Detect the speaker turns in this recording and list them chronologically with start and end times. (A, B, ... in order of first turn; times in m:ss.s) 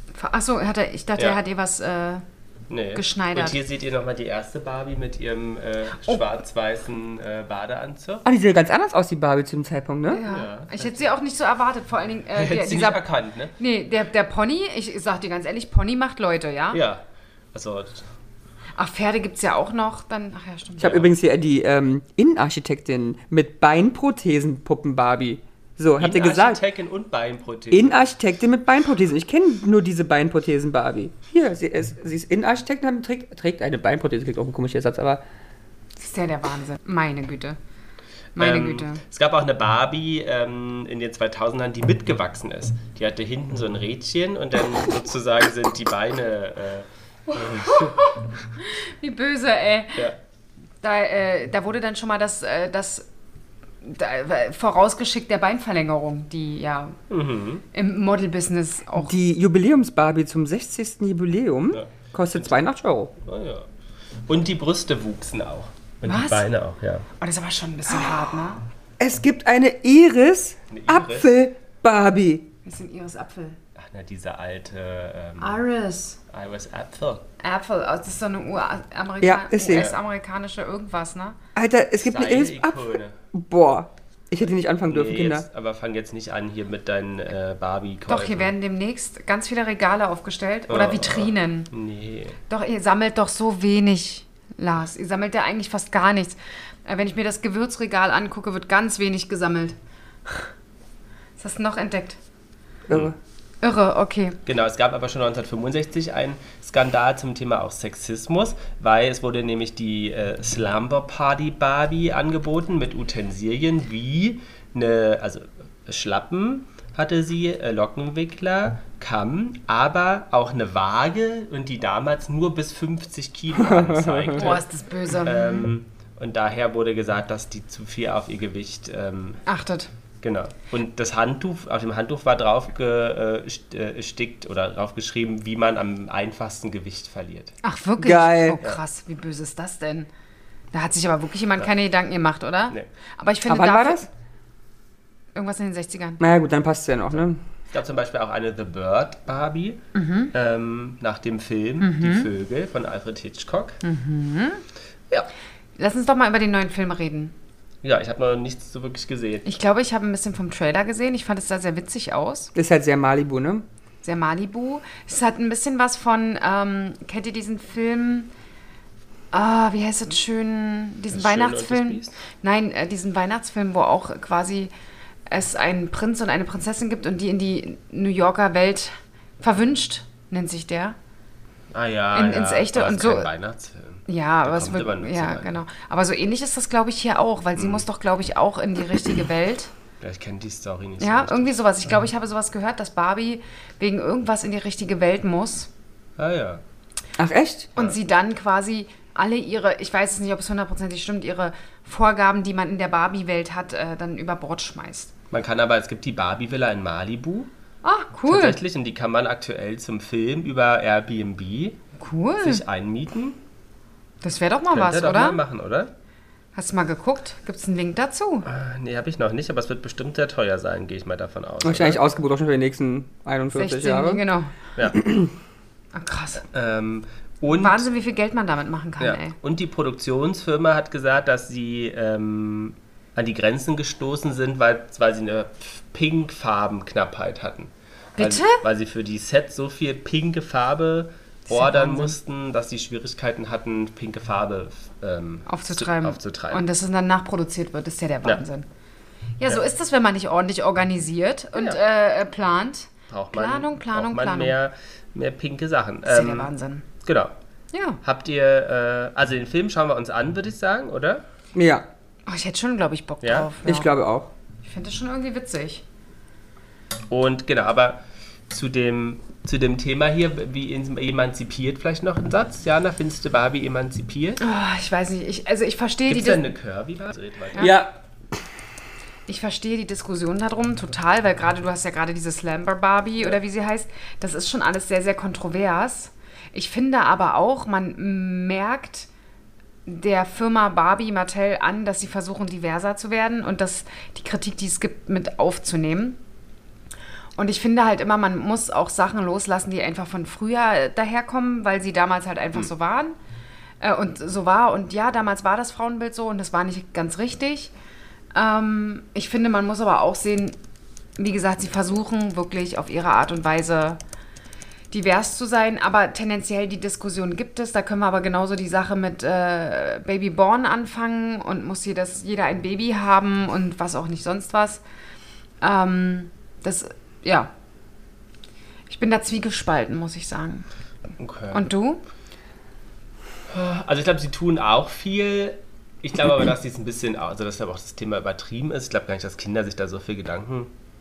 0:00.1-0:02.2 A
0:02.7-0:08.3 B
0:02.9-0:03.6 A
0:08.2-0:10.2 C
0:10.1-0:13.0 A
0:10.3-0:11.1 B
0:12.3-0:13.5 B
0:13.6-0:16.8 A
0:16.7-0:18.1 B
0:18.8-0:20.9 A
0:20.8-0:21.1 B
0:20.8-0:26.6 C
0:26.0-0:27.9 B
0:27.7-0:35.2 C
0:36.0-0:37.6 A
0:38.4-0:39.0 A
0:38.4-0:48.1 B
0:47.5-0:50.1 A
0:50.8-0:53.1 A
0:53.8-0:57.0 A
0:57.1-0:57.6 B
0:57.7-0:59.1 A
0:59.0-1:03.1 C
1:01.7-1:02.6 B
1:03.2-1:03.7 B
1:04.3-1:07.0 B
1:06.0-1:06.5 A
1:07.2-1:08.6 A
1:09.0-1:12.4 C
1:10.7-1:11.3 B
1:12.6-1:13.6 A
1:13.8-1:15.6 B
1:15.4-1:16.2 A
1:16.3-1:17.2 B
1:17.4-1:21.4 A
1:19.2-1:19.9 C
1:19.7-1:20.0 B
1:21.5-1:25.5 C
1:22.0-1:23.2 B
1:24.8-1:28.5 B
1:28.1-1:31.7 A
1:30.7-1:32.4 B
1:32.5-1:39.7 A
1:41.4-1:42.2 A
1:42.9-1:43.1 C
1:42.9-1:43.1 B
1:43.6-1:44.4 A
1:44.4-2:04.6 B
2:03.7-2:04.4 C
2:04.3-2:05.7 A
2:05.2-2:09.4 B
2:09.5-2:09.9 A
2:10.2-2:17.5 B
2:17.6-2:20.1 A
2:18.0-2:18.6 C
2:20.7-2:24.1 A
2:23.5-2:24.1 C
2:25.3-2:26.2 A
2:26.2-2:27.4 C
2:27.7-2:29.8 B
2:29.9-2:30.3 A
2:30.3-2:33.8 B
2:31.8-2:32.3 A
2:33.8-2:34.6 A
2:35.8-2:37.3 A
2:37.8-2:39.4 B
2:39.4-2:42.5 A
2:42.5-2:43.6 C
2:44.0-2:48.3 A
2:49.3-2:54.7 A
2:51.1-2:52.2 B
2:55.3-3:01.0 A
3:01.7-3:05.5 B
3:02.1-3:03.3 A
3:04.1-3:09.7 A
3:07.6-3:07.8 B
3:10.0-3:11.9 B
3:11.0-3:15.7 A
3:16.2-3:16.6 B
3:17.2-3:17.7 C
3:17.8-3:25.1 A
3:25.3-3:27.5 B
3:27.8-3:28.6 A
3:28.3-3:31.8 B
3:32.0-3:32.6 A
3:32.4-3:33.4 B
3:34.2-3:35.4 A
3:34.7-3:35.9 B
3:36.5-3:38.4 A
3:38.4-3:42.0 B
3:41.6-3:44.2 C
3:43.5-3:44.5 A
3:45.0-3:45.3 C
3:45.9-3:46.4 A
3:46.5-3:47.8 B
3:47.4-3:49.3 A
3:49.0-4:06.6 B
3:58.2-3:58.6 A
4:01.5-4:02.2 A
4:05.5-4:08.6 A
4:09.4-4:14.6 A
4:13.1-4:16.5 B
4:16.0-4:16.8 A
4:17.0-4:17.3 B
4:17.7-4:18.0 A
4:18.0-4:21.2 B
4:21.5-4:21.8 C
4:22.2-4:23.9 A
4:23.2-4:23.5 B
4:23.6-4:24.3 C
4:24.6-4:25.8 A
4:27.1-4:34.4 B
4:34.4-4:36.5 A
4:36.1-4:37.8 B
4:37.6-4:37.9 C
4:39.3-4:49.1 A
4:49.8-4:56.2 A
4:57.4-5:03.1 A
5:03.8-5:07.7 A
5:08.3-5:10.6 A
5:11.2-5:14.0 A
5:14.9-5:24.8 A
5:25.6-5:27.5 A
5:28.9-5:30.6 A
5:31.2-5:31.6 B
5:31.5-5:32.0 A
5:33.5-5:40.7 B